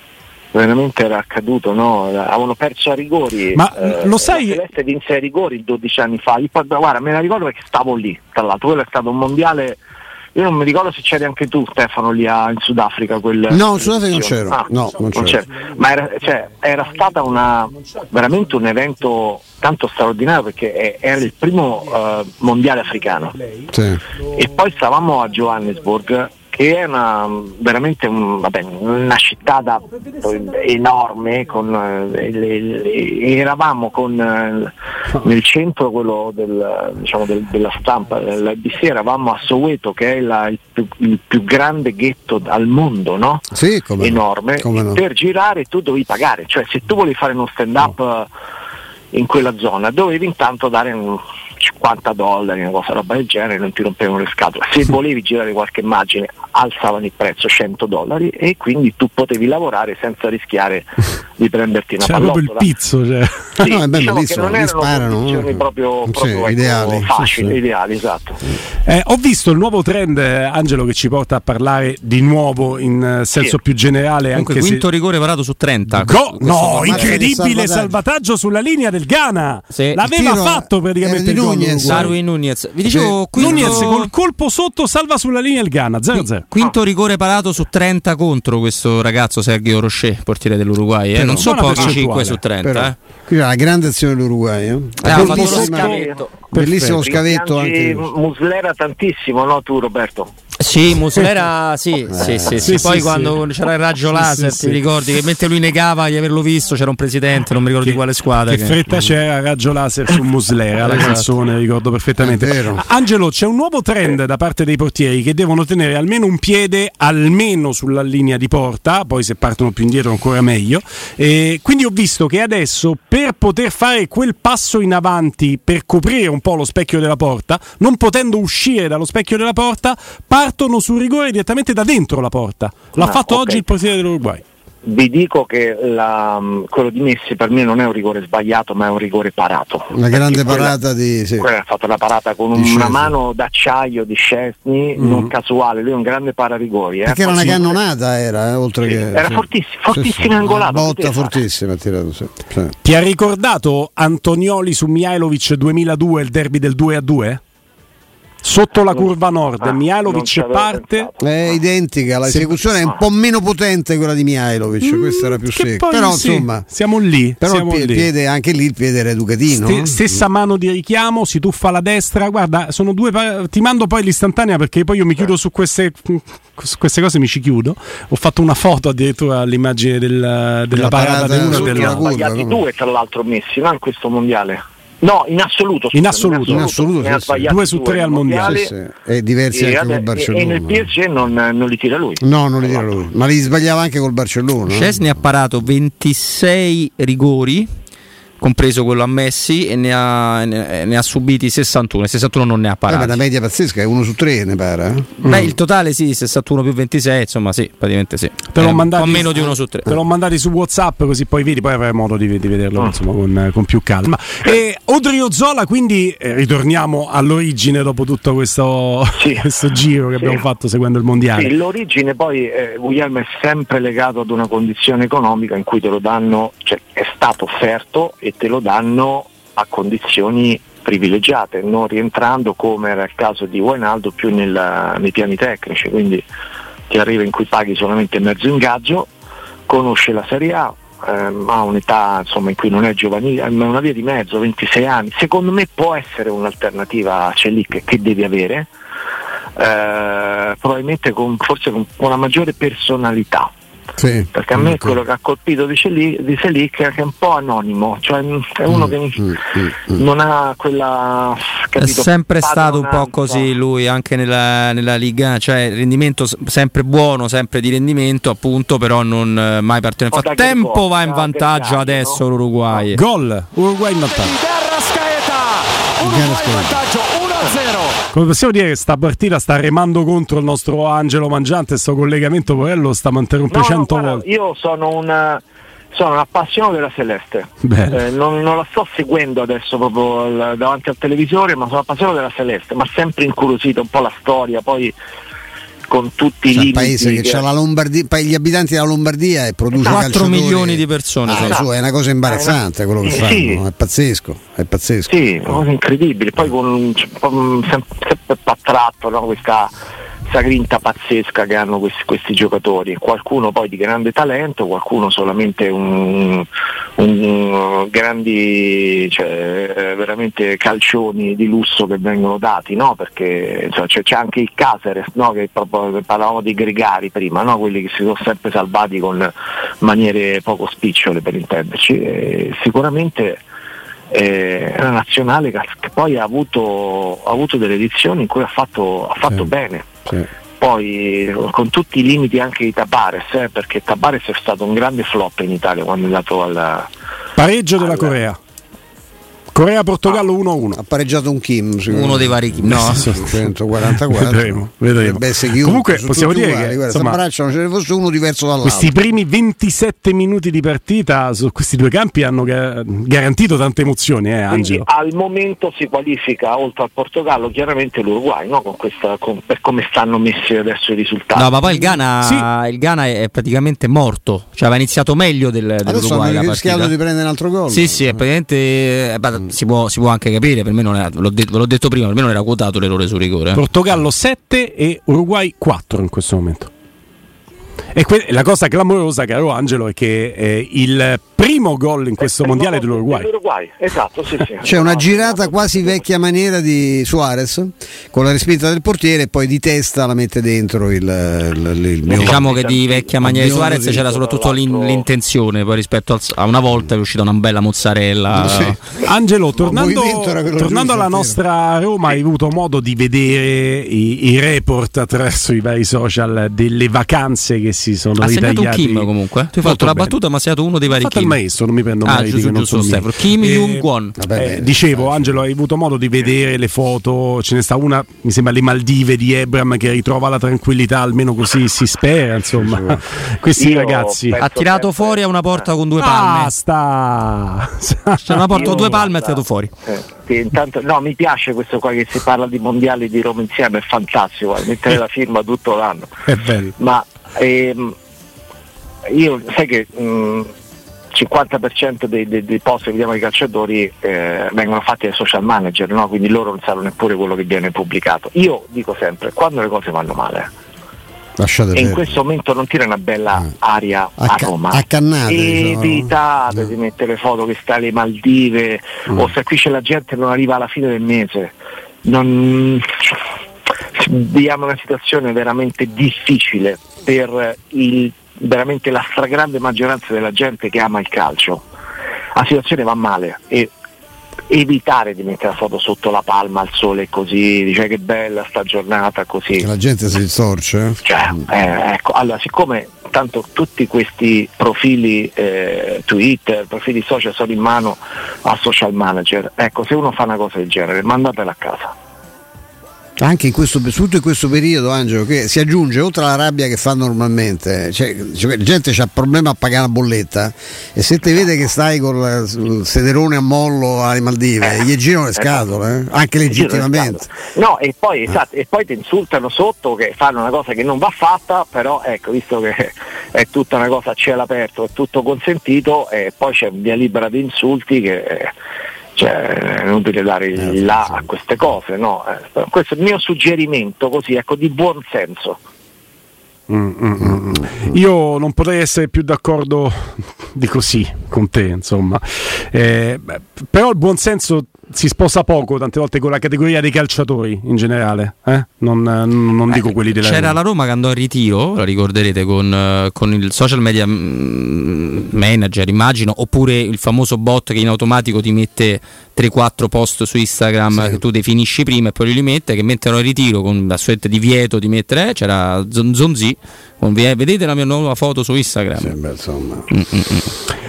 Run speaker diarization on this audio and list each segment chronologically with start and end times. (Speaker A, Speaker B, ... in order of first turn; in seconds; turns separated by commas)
Speaker A: 0.5-9.8, Speaker B: 3.5-4.6, Speaker A: 10.3-23.3, Speaker C: 13.5-15.4, Speaker B: 23.3-23.7, Speaker C: 23.7-24.0, Speaker A: 24.3-48.3, Speaker C: 43.5-45.0, Speaker A: 49.1-62.7, Speaker B: 62.0-63.6, Speaker A: 63.6-68.4, Speaker C: 63.6-67.5, Speaker B: 68.8-74.8, Speaker D: 74.3-77.2, Speaker B: 76.0-82.1, Speaker C: 76.8-78.0, Speaker D: 79.7-80.0, Speaker C: 80.0-82.2, Speaker D: 81.8-84.1, Speaker C: 82.8-83.9, Speaker B: 83.3-86.4, Speaker D: 86.2-93.0, Speaker B: 91.1-92.4, Speaker C: 92.6-98.1, Speaker D: 95.0-96.2, Speaker B: 95.0-96.0, Speaker A: 95.2-100.3, Speaker B: 96.5-97.0, Speaker D: 100.6-108.8, Speaker C: 102.1-102.9, Speaker B: 102.6-103.4, Speaker B: 104.0-104.8, Speaker B: 107.8-134.4, Speaker D: 110.8-111.3, Speaker C: 112.2-112.8, Speaker A: 132.9-133.6, Speaker A: 134.8-140.7, Speaker C: 139.9-141.5, Speaker A: 141.4-147.8, Speaker C: 142.5-143.1, Speaker B: 145.0-145.3, Speaker C: 147.0-152.7, Speaker A: 148.8-151.4, Speaker B: 152.8-157.4, Speaker B: 158.4-161.1, Speaker A: 159.6-161.6, Speaker C: 161.2-166.7, Speaker B: 162.2-162.6, Speaker B: 164.8-168.1, Speaker C: 167.4-170.2, Speaker B: 169.5-182.1, Speaker C: 180.7-182.6, Speaker A: 181.4-188.7, Speaker B: 185.9-186.7, Speaker C: 186.4-187.5, Speaker B: 187.5-188.7, Speaker C: 188.4-190.9, Speaker A: 189.5-192.9, Speaker C: 192.2-195.0, Speaker D: 194.7-197.7, Speaker D: 198.4-203.2, Speaker C: 202.9-205.4, Speaker B: 205.2-205.5, Speaker D: 205.2-209.9, Speaker B: 208.5-221.5, Speaker A: 219.2-219.5, Speaker A: 220.2-220.4, Speaker A: 221.3-236.2, Speaker A: 236.9-239.1, Speaker A: 239.7-248.7, Speaker A: 249.6-253.5, Speaker C: 254.0-254.7, Speaker A: 254.3-263.5, Speaker C: 258.7-260.0, Speaker D: 261.8-273.0, Speaker A: 270.1-272.2, Speaker B: 272.9-274.3, Speaker E: 274.0-278.0, Speaker C: 276.0-276.8, Speaker B: 278.1-284.2, Speaker A: 283.5-294.9, Speaker B: 287.6-288.0, Speaker A: 295.9-297.4, Speaker C: 296.5-305.1, Speaker D: 299.7-301.6, Speaker A: 299.8-300.1, Speaker A: 301.3-301.7, Speaker A: 302.2-303.6, Speaker A: 305.1-309.7, Speaker A: 310.3-316.5, Speaker A: 317.0-333.4, Speaker A: 334.1-340.1, Speaker A: 340.6-346.9, Speaker B: 347.4-348.4, Speaker A: 347.8-348.2, Speaker B: 349.5-350.8, Speaker C: 350.8-358.9, Speaker D: 351.9-353.1, Speaker B: 352.7-357.2, Speaker B: 358.6-364.9, Speaker A: 364.5-371.9, Speaker D: 371.3-376.9, Speaker B: 372.2-372.5, Speaker C: 375.8-378.2, Speaker D: 377.7-383.6, Speaker B: 383.5-386.7, Speaker B: 387.9-393.3, Speaker A: 392.2-396.1, Speaker C: 394.6-402.4, Speaker A: 402.1-405.1, Speaker D: 402.1-408.8, Speaker C: 403.2-404.0, Speaker C: 408.3-408.8, Speaker B: 409.0-420.1, Speaker C: 409.6-411.4, Speaker D: 418.2-421.4, Speaker B: 420.9-434.4, Speaker D: 422.0-424.1, Speaker C: 424.2-425.4, Speaker C: 432.5-433.0, Speaker A: 433.6-435.7, Speaker D: 434.4-436.5, Speaker B: 436.0-439.1, Speaker D: 438.2-439.7, Speaker A: 438.5-446.1, Speaker B: 446.2-446.8, Speaker A: 446.8-447.9, Speaker A: 449.1-450.5, Speaker A: 451.1-460.5, Speaker C: 461.4-462.1, Speaker A: 461.7-471.5, Speaker C: 464.2-466.7, Speaker A: 472.0-473.2, Speaker A: 473.9-481.6, Speaker A: 482.3-483.7, Speaker A: 484.5-489.7, Speaker C: 489.6-491.0, Speaker A: 491.0-501.9, Speaker C: 503.2-517.3, Speaker A: 514.6-515.6, Speaker A: 516.5-528.5, Speaker A: 529.1-535.6, Speaker C: 530.5-531.2, Speaker B: 536.7-550.6, Speaker D: 549.7-569.1, Speaker C: 560.9-561.2, Speaker C: 569.0-569.9, Speaker D: 569.9-570.5